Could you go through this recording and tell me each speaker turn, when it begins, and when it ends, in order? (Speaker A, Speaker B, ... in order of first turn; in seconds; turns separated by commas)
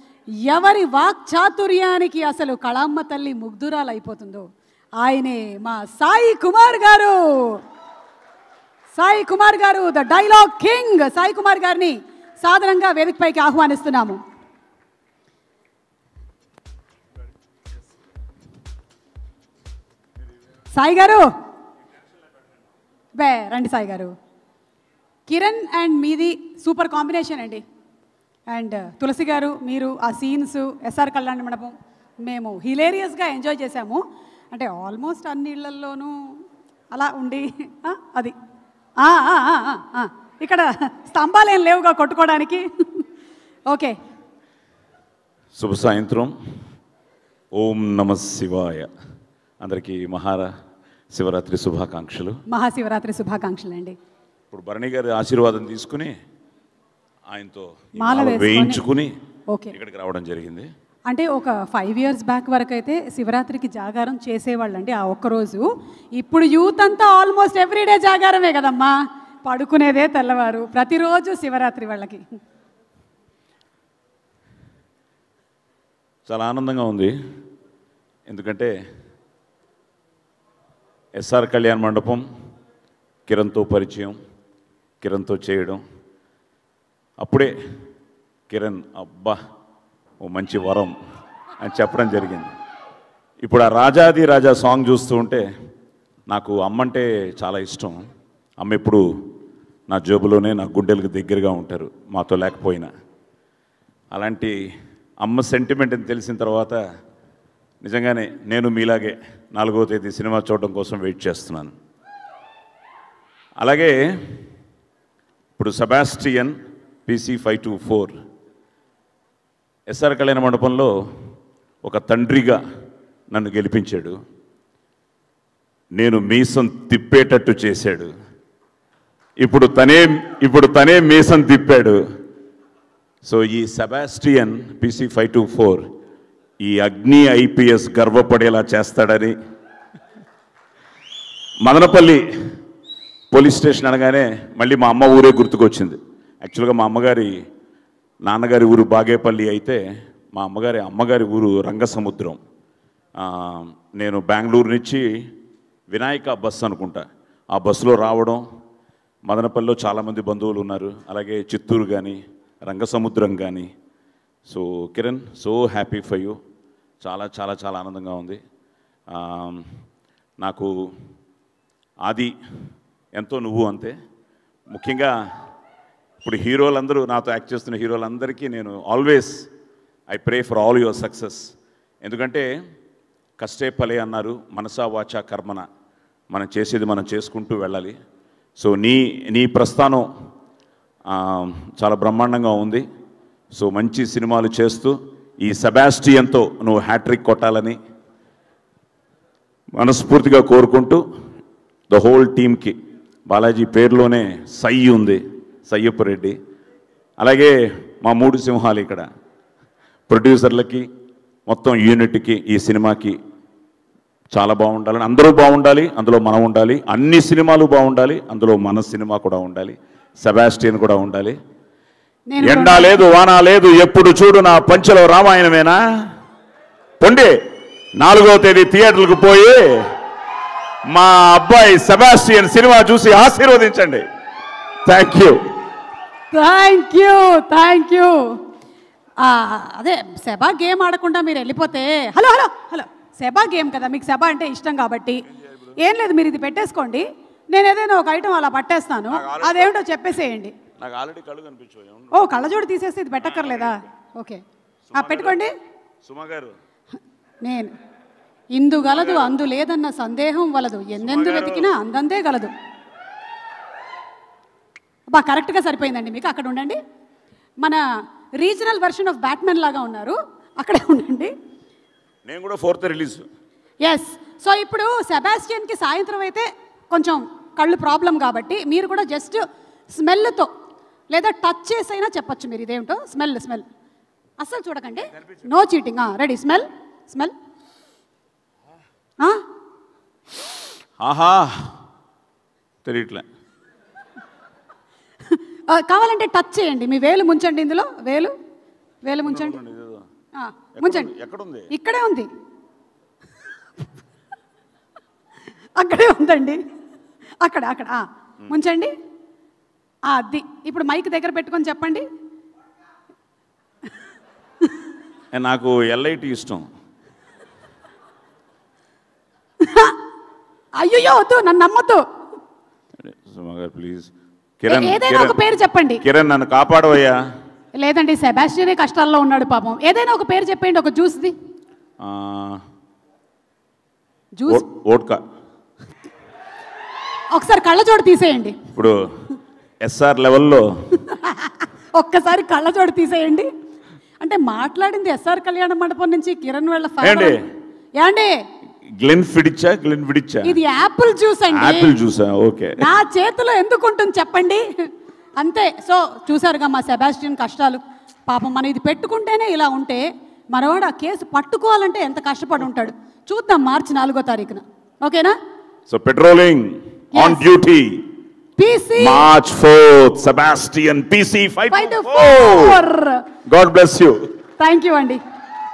Speaker A: 0.5-4.5, Speaker A: 5.0-7.6, Speaker A: 8.9-14.2, Speaker A: 20.7-21.3, Speaker A: 23.2-24.1, Speaker A: 25.3-27.6, Speaker A: 28.5-36.2, Speaker A: 36.9-38.3, Speaker A: 39.0-43.0, Speaker A: 43.7-44.0, Speaker B: 45.6-46.3, Speaker B: 47.6-48.9, Speaker B: 49.6-50.5, Speaker B: 51.1-52.4, Speaker A: 52.5-54.0, Speaker B: 54.5-56.1, Speaker B: 57.3-59.1, Speaker A: 58.0-58.8, Speaker B: 59.7-60.7, Speaker A: 61.1-68.9, Speaker A: 69.4-72.2, Speaker B: 76.3-77.1, Speaker B: 78.3-78.7, Speaker B: 81.2-82.2, Speaker B: 83.3-84.1, Speaker B: 85.0-85.8, Speaker B: 87.2-87.5, Speaker B: 88.5-89.4, Speaker B: 90.2-90.9, Speaker B: 91.6-92.5, Speaker B: 93.4-95.4, Speaker B: 96.3-98.0, Speaker B: 98.6-99.0, Speaker B: 99.9-102.9, Speaker B: 104.1-104.5, Speaker B: 105.2-106.8, Speaker B: 107.8-111.7, Speaker B: 113.6-114.0, Speaker B: 115.6-116.5, Speaker B: 117.1-118.1, Speaker B: 119.9-120.9, Speaker B: 121.8-122.6, Speaker B: 123.3-124.2, Speaker B: 126.0-128.1, Speaker B: 129.4-132.0, Speaker B: 133.2-135.8, Speaker B: 136.6-139.3, Speaker B: 141.6-142.2, Speaker B: 143.3-147.3, Speaker B: 148.2-149.8, Speaker B: 150.3-152.4, Speaker B: 153.2-155.2, Speaker B: 155.9-158.4, Speaker B: 159.3-163.7, Speaker B: 164.5-166.3, Speaker B: 167.0-168.4, Speaker B: 169.1-169.6, Speaker B: 170.4-170.7, Speaker B: 172.1-172.3, Speaker B: 173.2-173.9, Speaker B: 174.7-175.1, Speaker B: 176.2-179.5, Speaker B: 180.1-181.5, Speaker B: 182.0-182.5, Speaker B: 183.4-185.6, Speaker B: 186.3-187.9, Speaker B: 188.6-190.1, Speaker B: 191.1-192.8, Speaker B: 193.6-197.8, Speaker B: 199.8-201.0, Speaker B: 201.9-202.8, Speaker B: 203.3-206.3, Speaker B: 207.2-209.1, Speaker B: 210.1-210.8, Speaker B: 211.5-213.2, Speaker B: 214.3-221.3, Speaker A: 222.3-223.0, Speaker B: 222.4-225.8, Speaker B: 227.0-227.4, Speaker B: 228.0-229.8, Speaker B: 230.9-234.0, Speaker B: 234.8-235.4, Speaker A: 236.3-238.2, Speaker A: 239.2-245.2, Speaker A: 245.8-250.5, Speaker B: 249.1-249.8, Speaker B: 250.8-252.4, Speaker A: 252.1-254.4, Speaker B: 253.2-253.8, Speaker B: 254.9-255.4, Speaker A: 254.9-255.5, Speaker B: 256.0-256.5, Speaker A: 257.4-257.7, Speaker A: 258.5-262.5, Speaker B: 258.8-259.4, Speaker B: 261.0-261.7, Speaker A: 265.1-266.8, Speaker A: 268.4-271.3, Speaker B: 272.3-273.3, Speaker A: 273.9-280.5, Speaker A: 281.1-283.6, Speaker A: 284.4-287.4, Speaker B: 291.0-291.7, Speaker B: 292.9-293.2, Speaker A: 295.3-298.3, Speaker A: 299.1-299.6, Speaker B: 299.2-300.1, Speaker A: 300.4-301.1, Speaker B: 300.8-301.7, Speaker A: 301.7-302.3, Speaker A: 305.8-306.6, Speaker A: 307.4-308.9, Speaker A: 310.1-312.0, Speaker B: 315.3-316.7, Speaker A: 319.6-320.0, Speaker A: 320.8-322.0, Speaker B: 323.0-325.4, Speaker A: 324.7-326.0, Speaker B: 326.0-327.2, Speaker A: 327.8-331.3, Speaker B: 332.0-332.6, Speaker A: 334.4-334.6, Speaker B: 334.5-335.2, Speaker A: 337.3-338.6, Speaker B: 339.8-340.7, Speaker A: 341.1-343.5, Speaker A: 344.2-347.4, Speaker B: 347.0-347.4, Speaker A: 348.0-348.3, Speaker B: 349.0-350.6, Speaker A: 350.4-351.9, Speaker B: 351.5-352.8, Speaker A: 352.8-354.6, Speaker A: 355.4-365.3, Speaker B: 365.9-368.0, Speaker A: 367.1-367.4, Speaker A: 368.6-369.3, Speaker B: 369.0-372.8, Speaker A: 371.7-373.2, Speaker B: 373.5-374.2, Speaker A: 374.6-375.2